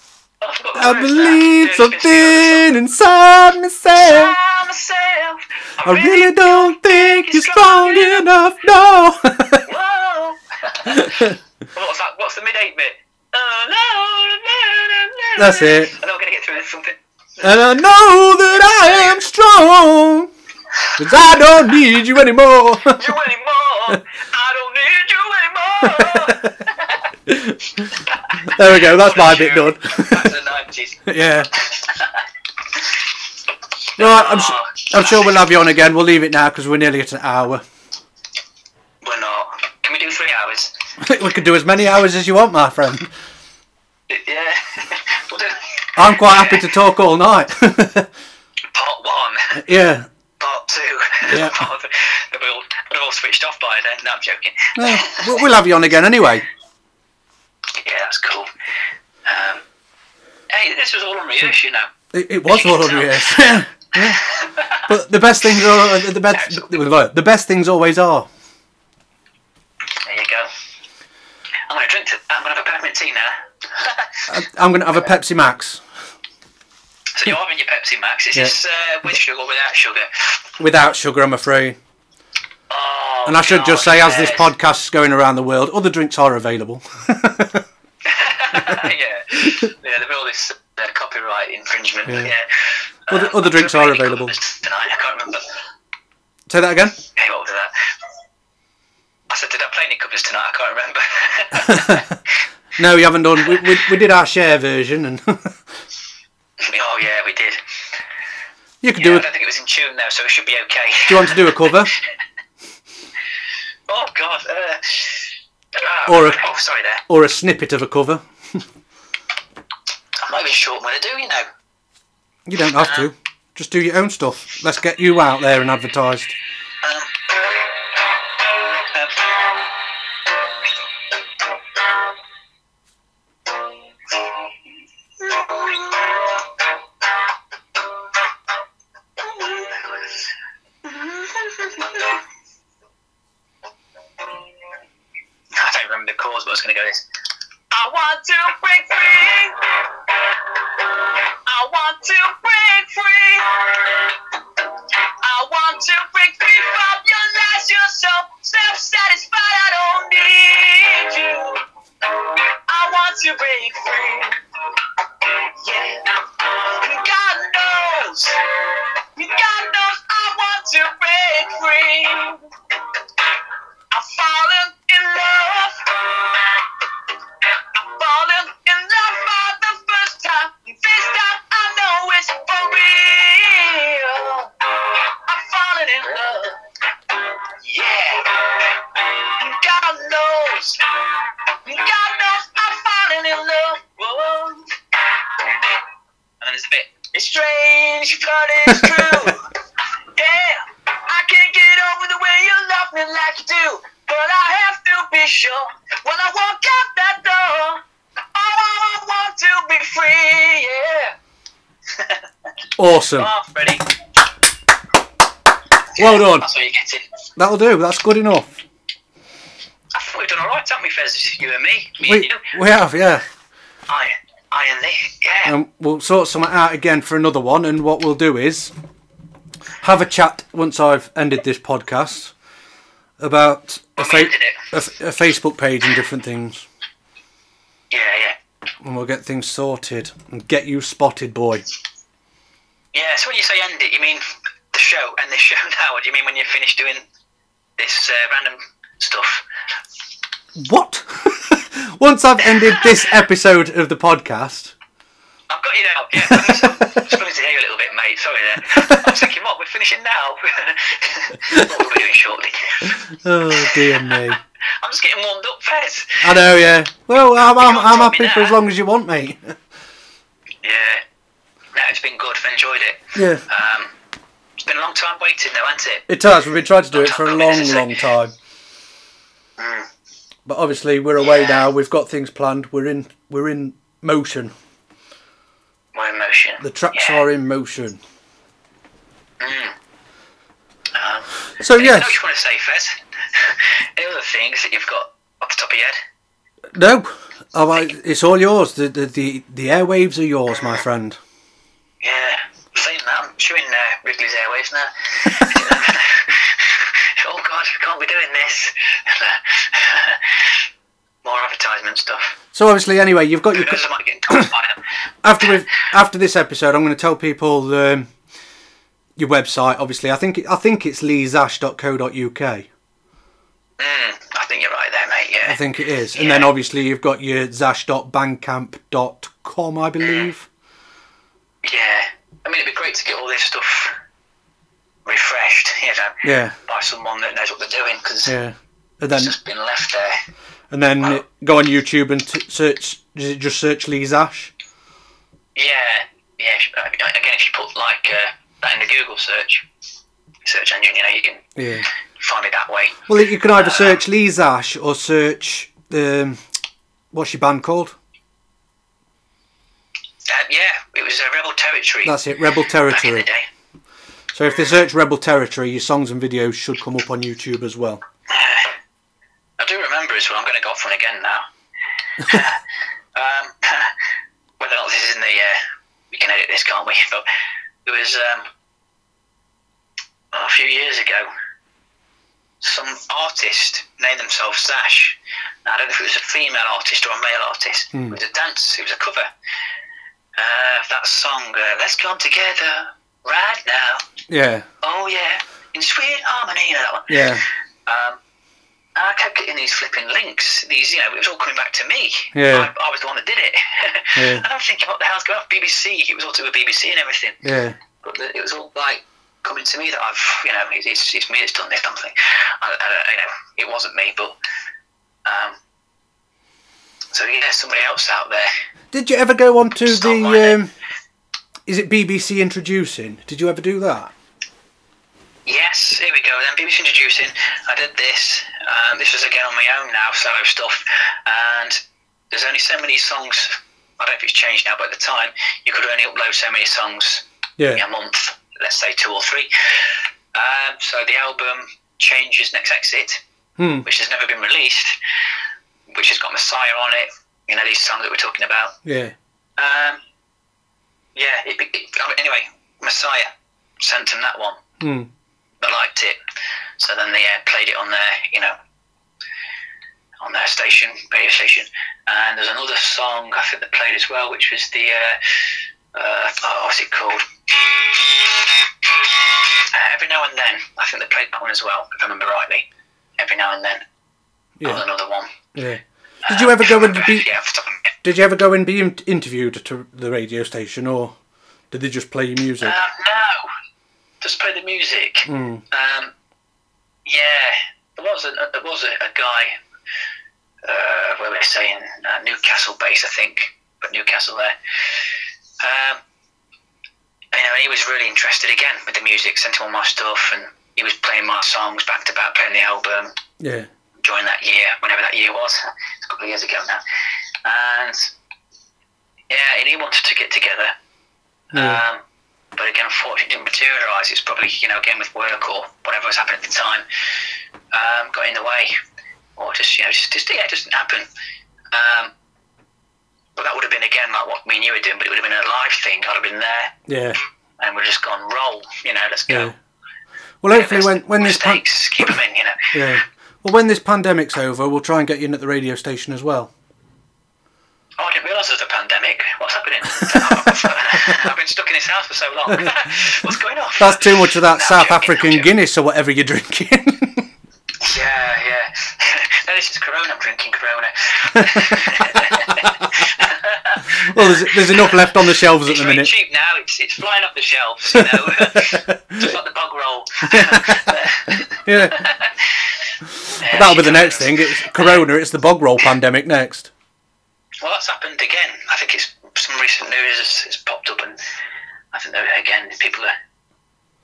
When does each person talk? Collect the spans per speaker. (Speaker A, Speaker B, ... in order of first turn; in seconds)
Speaker A: 0.4-2.7, 4.0-8.3, 9.6-17.0, 22.9-27.1, 28.0-32.2, 34.0-35.2, 39.0-40.7, 44.1-46.7, 48.7-49.6, 50.4-55.4, 57.7-58.5, 59.2-59.6, 60.5-61.9, 62.5-64.8, 66.3-66.8, 70.0-70.5, 71.7-74.3, 77.1-80.4, 82.7-84.5, 88.0-95.5, 97.1-97.7, 99.3-102.1, 106.6-107.6, 109.0-111.8, 113.9-117.0, 120.2-121.5, 122.8-123.1, 126.8-127.7, 128.6-129.6, 135.2-136.4, 139.2-140.3, 140.8-142.2, 145.5-147.0, 147.7-154.6, 155.2-161.6, 162.1-164.3, 165.2-172.5, 173.9-176.8, 177.5-186.6, 187.2-195.8, 196.4-199.5, 200.1-207.8, 208.3-211.1, 213.1-213.9, 215.9-217.0, 219.9-222.5, 223.9-225.6, 234.0-234.6, 237.9-238.3, 242.9-247.0, 247.8-249.4, 255.5-263.0, 263.6-266.2, 267.6-268.6, 270.6-271.0, 271.7-273.9, 274.6-276.1, 276.9-277.9, 279.6-279.9, 285.9-287.2, 289.4-289.8, 290.9-296.0, 302.0-310.3, 311.2-312.4, 313.5-314.8, 323.8-325.6, 326.1-326.5, 330.0-330.3, 331.6-333.9, 335.1-338.4, 339.1-340.1, 345.5-349.6, 350.4-351.5, 352.2-354.0, 360.3-362.2, 362.9-363.4, 368.3-368.7, 369.6-371.4, 372.2-372.6, 373.1-373.9, 374.6-375.6, 376.1-377.2, 377.8-378.5, 380.3-381.3, 382.6-389.3, 390.4-394.0, 394.8-398.2, 398.9-407.4, 408.0-414.4, 415.2-415.6, 417.1-418.5, 419.8-420.6, 425.4-439.5, 440.3-443.2, 443.8-444.9, 445.9-448.8, 449.6-450.0, 451.1-454.6, 455.6-456.2, 456.8-458.5, 460.2-465.2, 465.9-472.7, 473.2-473.8, 474.6-475.3, 476.2-477.9, 482.6-483.4, 484.2-486.1, 487.0-489.6, 490.6-494.5, 495.6-496.0, 497.3-503.1, 504.0-506.8, 507.4-508.1, 509.3-510.7, 511.5-512.0, 512.5-516.8, 517.7-518.7, 519.4-521.1, 521.7-522.1, 523.4-526.8, 527.6-529.5, 530.5-532.7, 538.0-545.5, 547.8-562.5, 563.4-565.0, 567.6-571.1, 571.9-573.1
Speaker B: 0.8-4.4, 5.8-9.6, 10.9-11.3, 15.4-15.9, 17.4-20.3, 21.0-23.0, 25.8-26.4, 27.3-27.9, 28.4-30.3, 31.1-31.5, 34.0-37.6, 41.0-43.1, 46.0-48.1, 49.6-50.1, 51.3-51.5, 54.8-56.5, 62.1-64.2, 64.8-68.3, 74.3-75.8, 80.6-81.8, 83.2-87.6, 88.5-88.8, 92.1-92.3, 93.1-94.3, 96.5-97.0, 101.6-102.0, 102.8-105.5, 108.8-109.2, 111.1-111.9, 116.0-116.4, 117.1-118.6, 122.5-126.3, 212.8-213.3, 216.0-216.5, 217.4-218.5, 222.1-223.2, 225.4-228.7, 229.8-232.3, 233.2-236.7, 238.8-241.6, 250.6-254.7, 256.2-257.1, 258.6-259.2, 263.1-264.4, 266.2-269.6, 273.1-273.4, 276.1-278.3, 280.4-284.5, 286.6-288.0, 291.6-292.2, 296.7-301.2, 312.5-314.5, 315.2-318.1, 319.2-322.7, 325.4-330.5, 336.2-336.5, 338.2-339.3, 340.7-344.5, 351.6-351.9, 353.1-356.4, 357.1-357.9, 362.0-363.2, 364.3-368.0, 394.3-394.7, 397.1-397.4, 402.3-402.7, 404.1-404.4, 407.4-407.8, 418.9-420.7, 421.7-424.1, 437.6-437.8, 443.6-443.9, 448.8-449.1, 454.8-455.1, 474.6-474.8, 475.5-477.3, 478.0-481.1, 481.7-482.8, 485.3-485.6, 503.4-503.7, 511.5-511.8, 526.9-527.2, 529.3-529.5, 530.4-532.1, 532.7-536.5, 540.0-541.1, 542.5-547.3, 551.4-552.7, 553.9-556.1, 557.9-559.3, 560.3-562.1, 563.5-566.7